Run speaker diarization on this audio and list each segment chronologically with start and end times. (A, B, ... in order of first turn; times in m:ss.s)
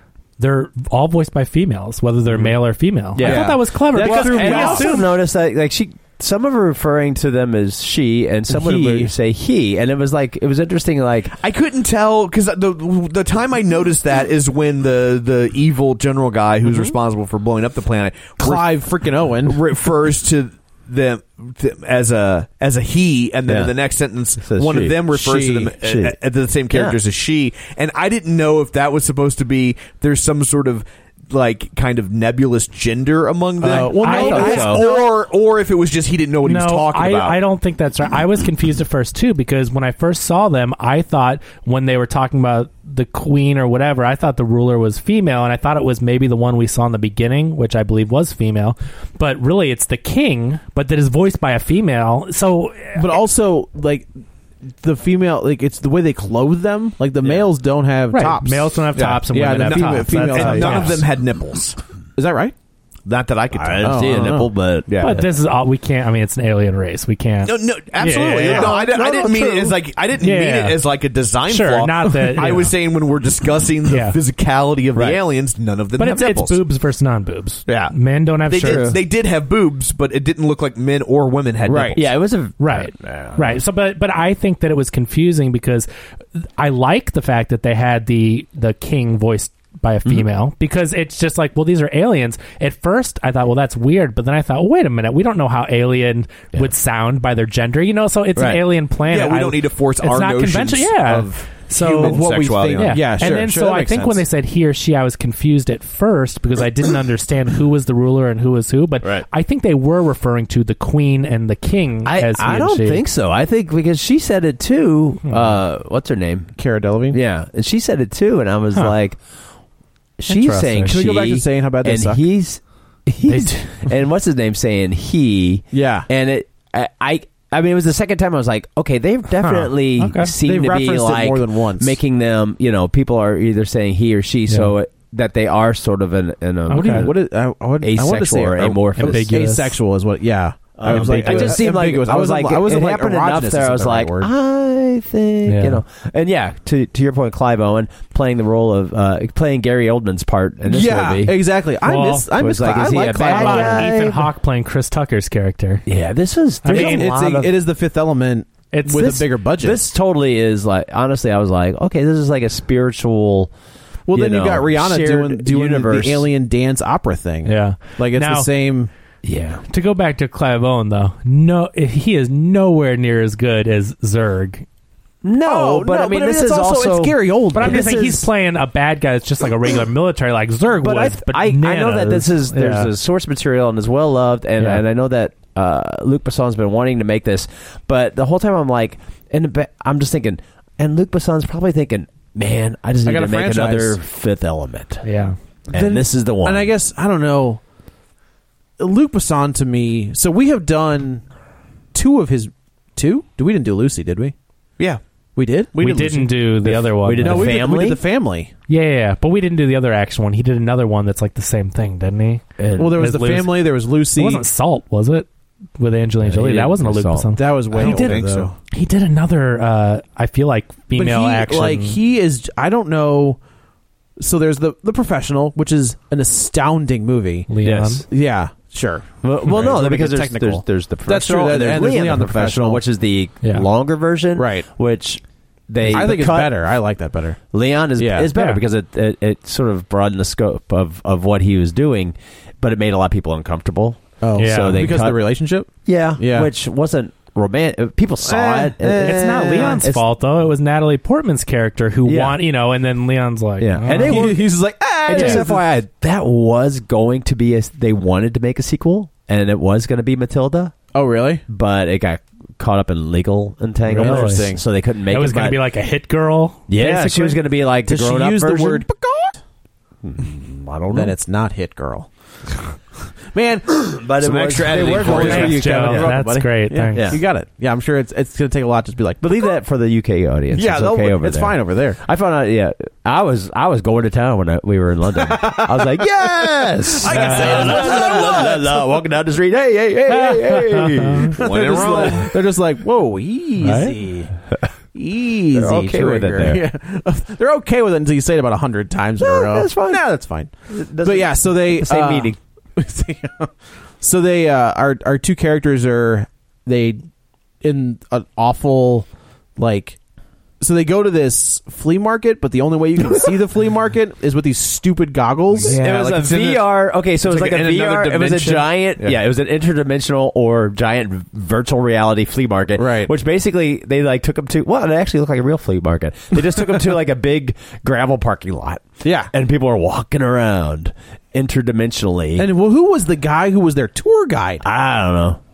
0:00.4-0:05.1 A
0:03.2-0:11.3 B
0:03.2-0:03.6 C
0:03.3-0:05.0 D
0:08.5-0:09.1 D
0:11.4-0:18.7 C
0:18.4-0:19.6 D
0:19.4-0:37.4 C
0:23.5-0:23.7 B
0:24.4-0:25.2 B
0:25.1-0:25.7 D
0:25.8-0:26.2 B
0:26.7-0:27.0 B
0:33.6-0:35.1 D
0:33.6-0:34.8 B
0:34.0-0:34.9 A
0:36.4-0:53.1 A
0:53.0-0:54.1 D
0:54.8-1:01.0 D
0:58.1-1:01.0 A
0:59.0-1:01.8 C
1:02.2-1:02.5 D
1:03.1-1:04.4 C
1:03.6-1:05.3 B
1:03.8-1:04.5 D
1:04.9-1:05.2 C
1:05.0-1:08.8 A
1:07.4-1:16.6 C
1:08.4-1:09.8 B
1:10.2-1:10.8 A
1:11.5-1:12.7 A
1:13.9-1:14.2 A
1:14.9-1:15.2 B
1:16.0-1:19.0 A
1:17.7-1:17.9 C
1:18.5-1:22.0 C
1:18.6-1:19.0 B
1:21.7-1:22.0 D
1:21.7-1:23.6 B
1:22.6-1:25.9 A
1:26.6-1:53.0 A
1:38.4-1:38.6 B
1:39.1-1:43.4 C
1:41.8-1:44.2 D
1:52.0-1:56.5 B
1:55.2-1:55.5 A
1:56.6-1:57.2 D
1:57.1-1:59.2 B
2:00.2-2:17.2 B
2:00.3-2:00.9 A
2:00.9-2:02.2 D
2:03.3-2:03.8 A
2:05.7-2:06.1 D
2:09.4-2:10.3 A
2:10.4-2:12.0 D
2:14.5-2:14.7 A
2:16.7-2:17.1 A
2:16.7-2:24.3 D
2:17.8-2:19.3 B
2:19.0-2:19.8 A
2:20.8-2:31.5 B
2:20.8-2:21.7 C
2:25.4-2:25.8 A
2:30.7-2:34.0 D
2:31.8-2:32.3 A
2:32.4-2:34.3 B
2:33.2-2:35.8 A
2:35.9-2:37.6 B
2:36.6-2:37.2 A
2:36.7-2:39.8 D
2:38.7-2:39.2 A
2:38.9-2:43.5 B
2:44.1-2:48.9 D
2:44.1-2:46.3 B
2:47.4-2:48.5 A
2:49.2-2:49.6 B
2:49.7-2:54.6 A
2:55.2-2:58.1 B
2:55.4-2:58.3 D
2:57.5-3:02.9 A
3:00.8-3:15.0 B
3:04.6-3:04.8 A
3:13.0-3:14.0 D
3:15.0-3:15.4 A
3:15.7-3:16.7 B
3:15.7-3:17.6 D
3:18.8-3:21.2 D
3:21.9-3:24.3 D
3:25.4-3:28.5 D
3:25.8-3:27.6 A
3:26.7-3:28.0 B
3:28.7-3:32.4 A
3:32.6-3:33.1 B
3:32.8-3:34.4 D
3:33.0-3:35.3 A
3:35.8-3:38.1 A
3:36.2-3:38.3 B
3:37.4-3:38.6 D
3:37.8-3:38.5 C
3:38.7-3:42.0 A
3:41.0-3:43.4 D
3:44.2-3:47.5 D
3:47.5-3:48.0 A
3:47.6-3:48.0 B
3:48.0-3:52.8 D
3:49.2-3:56.6 B
3:54.4-3:54.7 D
3:55.8-3:57.4 D
3:57.5-4:05.2 B
3:58.0-3:58.3 D
3:58.3-3:58.6 A
4:04.2-4:06.5 D
4:04.4-4:04.9 A
4:05.8-4:10.0 B
4:08.2-4:09.8 D
4:09.0-4:14.3 A
4:12.1-4:12.4 B
4:13.6-4:14.5 B
4:13.9-4:15.8 D
4:15.0-4:20.8 B
4:15.1-4:15.4 A
4:20.9-4:21.4 D
4:21.5-4:25.6 B
4:23.9-4:24.5 A
4:23.9-4:24.6 D
4:25.1-4:27.0 A
4:26.7-4:28.9 B
4:26.8-4:29.4 D
4:30.0-4:31.2 B
4:30.9-4:32.1 D
4:33.3-4:39.5 D
4:33.9-4:36.4 B
4:34.6-4:35.4 C
4:35.1-4:37.2 A
4:36.9-4:37.2 B
4:39.2-4:52.2 B
4:40.5-4:42.0 D
4:45.2-4:48.9 D
4:47.1-4:47.8 A
4:50.1-4:51.3 A
4:51.4-4:54.3 D
4:51.4-4:52.4 C
4:53.6-4:54.0 A
4:54.9-5:07.0 D
4:55.5-4:56.6 B
4:59.2-5:02.4 B
5:07.6-5:10.0 D
5:10.6-5:15.8 D
5:15.6-5:19.2 C
5:15.6-5:32.5 B
5:22.8-5:23.1 D
5:29.0-5:29.3 D
5:32.4-5:34.6 D
5:34.6-5:35.4 B